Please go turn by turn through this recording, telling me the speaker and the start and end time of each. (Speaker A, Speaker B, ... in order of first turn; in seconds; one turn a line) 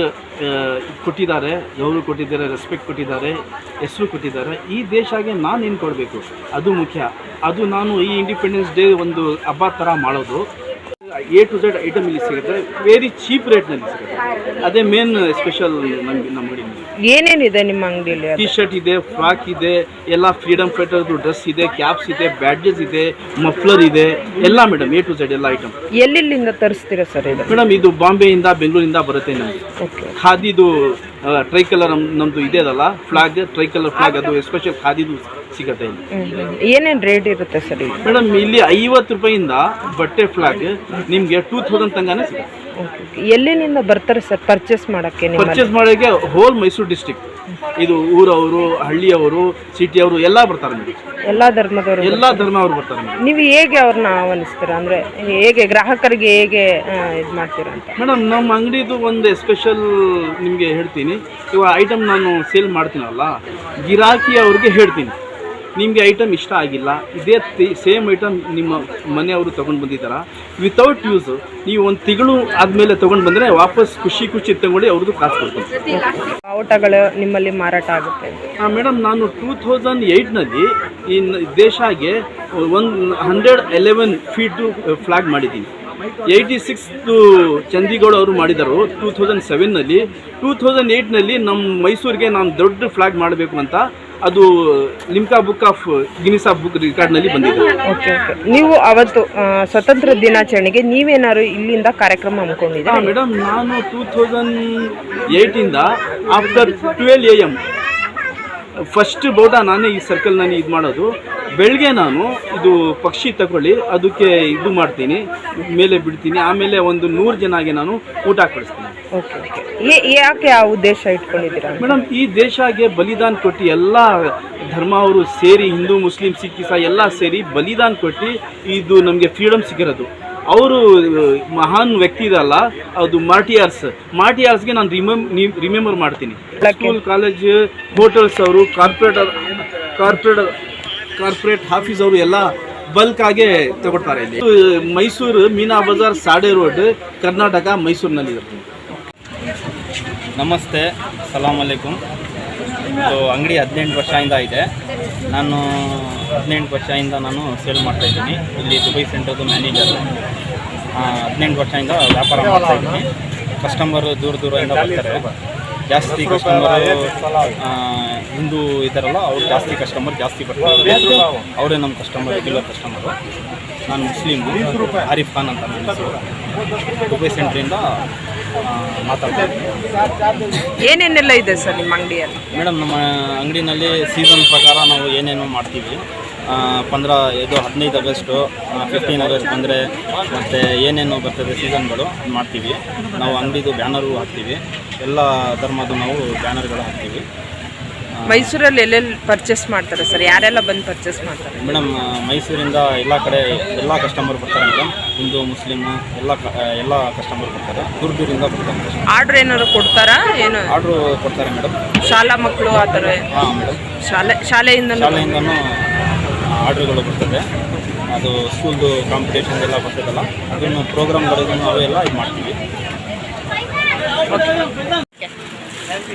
Speaker A: 0.4-10.5
Speaker A: 11.1-16.9
Speaker B: 17.1-18.6
Speaker A: 18.4-25.7
Speaker B: 26.0-27.6
Speaker A: 27.5-29.6
Speaker B: 29.8-30.1
Speaker A: 30.2-36.0
Speaker B: 36.1-38.0
Speaker A: 38.0-42.5
Speaker B: 42.8-45.7
Speaker A: 45.4-47.2
Speaker A: 47.8-50.9
Speaker B: 51.3-52.4
Speaker A: 52.0-53.2
Speaker B: 53.2-57.9
Speaker A: 58.0-63.3
Speaker A: 63.9-65.1
Speaker A: 65.8-75.7
Speaker B: 75.9-78.4
Speaker A: 78.6-85.7
Speaker A: 86.3-97.8
Speaker B: 97.8-103.1
Speaker A: 102.8-107.6
Speaker A: 108.9-111.1
Speaker A: 111.6-118.9
Speaker B: 119.2-122.0
Speaker A: 121.8-140.5
Speaker B: 136.6-137.0
Speaker A: 141.2-148.7
Speaker C: 150.4-152.0
Speaker C: 152.9-154.6
Speaker C: 155.3-160.1
Speaker C: 160.9-163.1
Speaker C: 163.6-165.3
Speaker C: 165.9-173.1
Speaker C: 173.9-176.3
Speaker C: 177.1-177.8
Speaker C: 178.7-179.7
Speaker B: 180.8-182.4
Speaker C: 182.5-197.2
Speaker C: 198.2-198.5
Speaker B: 198.3-201.7
Speaker C: 201.6-209.0
Speaker B: 209.1-210.7
Speaker C: 210.7-211.7
Speaker B: 212.1-213.2
Speaker C: 213.3-213.8
Speaker B: 214.1-215.3
Speaker C: 214.9-215.6
Speaker C: 216.6-217.4
Speaker C: 218.1-222.6